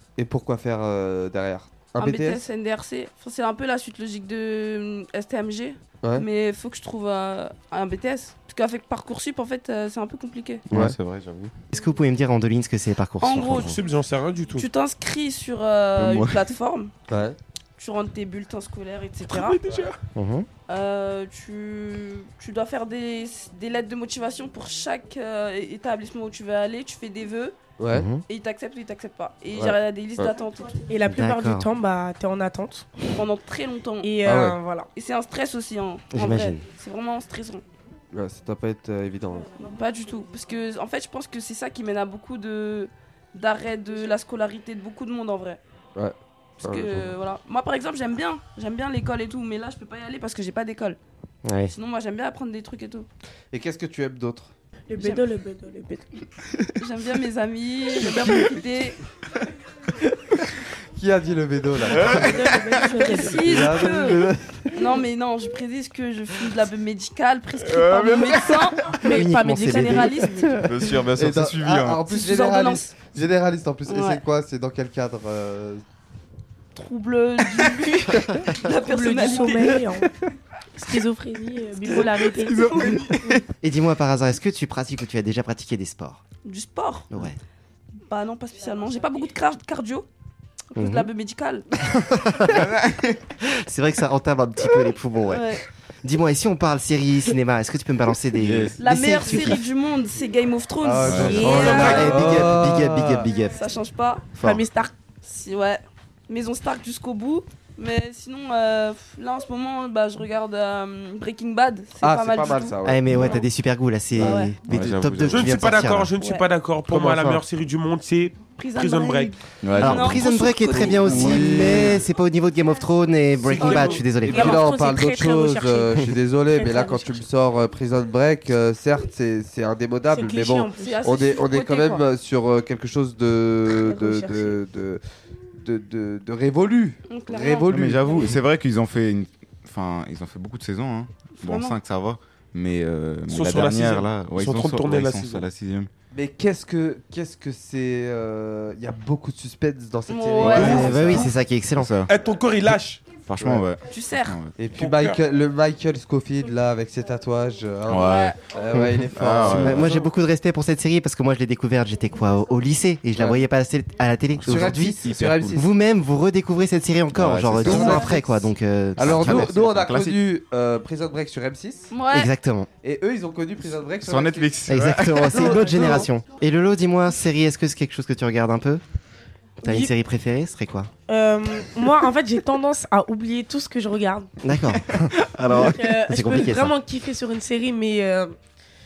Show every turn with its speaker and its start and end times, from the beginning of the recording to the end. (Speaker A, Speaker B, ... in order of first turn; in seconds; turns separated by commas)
Speaker A: 0.1-2.4, Speaker B: 2.0-10.6, Speaker C: 10.7-11.5, Speaker D: 11.7-13.8, Speaker B: 13.2-13.8, Speaker E: 13.4-14.7, Speaker B: 14.5-16.9, Speaker C: 15.9-16.5, Speaker A: 17.1-17.4, Speaker B: 17.8-19.6, Speaker E: 19.2-20.0, Speaker D: 20.1-20.5, Speaker B: 20.7-27.6, Speaker A: 27.8-28.1, Speaker D: 27.9-28.2, Speaker B: 28.3-30.8, Speaker A: 29.5-30.3, Speaker F: 30.9-32.9, Speaker D: 31.0-31.7, Speaker B: 33.1-34.1, Speaker F: 34.0-34.9, Speaker A: 34.2-34.6, Speaker B: 34.9-37.6, Speaker D: 36.1-36.6, Speaker A: 38.1-39.5, Speaker B: 39.6-45.6, Speaker A: 45.9-47.1, Speaker B: 46.6-51.0, Speaker D: 51.4-51.7, Speaker B: 51.7-53.1, Speaker A: 53.5-54.5, Speaker F: 54.9-56.1, Speaker B: 55.0-55.2, Speaker B: 56.8-59.0, Speaker A: 60.9-62.6, Speaker C: 61.9-63.0, Speaker F: 62.2-63.6, Speaker B: 62.9-70.5, Speaker A: 63.2-64.8, Speaker C: 67.6-69.0, Speaker D: 69.0-70.4, Speaker F: 69.0-70.6, Speaker A: 70.5-75.8, Speaker C: 70.6-72.0, Speaker B: 72.1-72.9, Speaker B: 73.8-74.2, Speaker B: 76.7-79.8, Speaker F: 78.5-80.1, Speaker A: 79.8-80.1, Speaker F: 80.8-83.4, Speaker B: 82.7-83.0, Speaker C: 82.8-83.4, Speaker D: 83.6-86.2, Speaker B: 86.4-87.1, Speaker D: 87.1-87.4, Speaker B: 88.0-90.1, Speaker B: 90.7-91.6, Speaker D: 90.8-91.1, Speaker D: 91.9-92.7, Speaker C: 92.5-93.2, Speaker D: 93.4-95.5, Speaker B: 95.3-95.6, Speaker D: 96.0-99.6, Speaker C: 98.4-99.6, Speaker B: 98.8-102.3, Speaker A: 100.8-103.3, Speaker C: 101.0-101.7, Speaker F: 101.2-101.8, Speaker D: 101.5-103.6, Speaker B: 103.5-104.3, Speaker D: 104.3-104.6, Speaker F: 104.4-104.9, Speaker B: 105.2-113.4, Speaker A: 112.0-113.0, Speaker D: 112.8-116.1, Speaker C: 113.1-113.4, Speaker B: 114.2-114.5, Speaker C: 114.2-115.9, Speaker E: 115.2-119.3, Speaker B: 116.2-116.4, Speaker A: 116.9-117.4, Speaker B: 118.6-121.3, Speaker C: 119.6-121.8, Speaker D: 119.8-124.6, Speaker A: 120.7-122.0, Speaker B: 123.5-124.0, Speaker E: 123.6-124.1, Speaker F: 124.3-127.2, Speaker A: 124.3-135.0, Speaker F: 130.1-131.0, Speaker B: 130.8-132.0, Speaker F: 133.7-134.6, Speaker A: 135.6-138.4, Speaker B: 137.1-138.1, Speaker C: 137.7-145.9, Speaker B: 141.3-141.8, Speaker E: 143.3-145.5, Speaker A: 146.1-151.3, Speaker B: 150.1-151.2, Speaker C: 150.4-152.1, Speaker D: 150.5-151.9, Speaker E: 150.6-150.9, Speaker E: 152.1-153.0, Speaker C: 153.3-154.5, Speaker B: 153.9-154.3, Speaker A: 154.6-160.1, Speaker E: 154.7-155.2, Speaker C: 157.9-158.4, Speaker B: 158.0-158.4, Speaker D: 158.7-169.5, Speaker C: 159.1-160.0, Speaker A: 163.1-163.4, Speaker C: 164.3-165.6, Speaker A: 164.4-165.6, Speaker C: 167.1-168.2, Speaker A: 167.6-168.0, Speaker B: 167.6-168.5, Speaker A: 169.0-171.9, Speaker C: 169.0-170.2, Speaker B: 171.9-172.3, Speaker D: 172.1-172.7, Speaker A: 172.8-174.7, Speaker C: 174.0-175.4, Speaker D: 174.7-178.8, Speaker A: 175.2-176.1, Speaker B: 175.4-176.0, Speaker D: 179.6-180.9, Speaker F: 179.6-179.9, Speaker F: 181.1-184.3, Speaker D: 184.4-186.8, Speaker C: 184.8-185.8, Speaker F: 185.7-188.3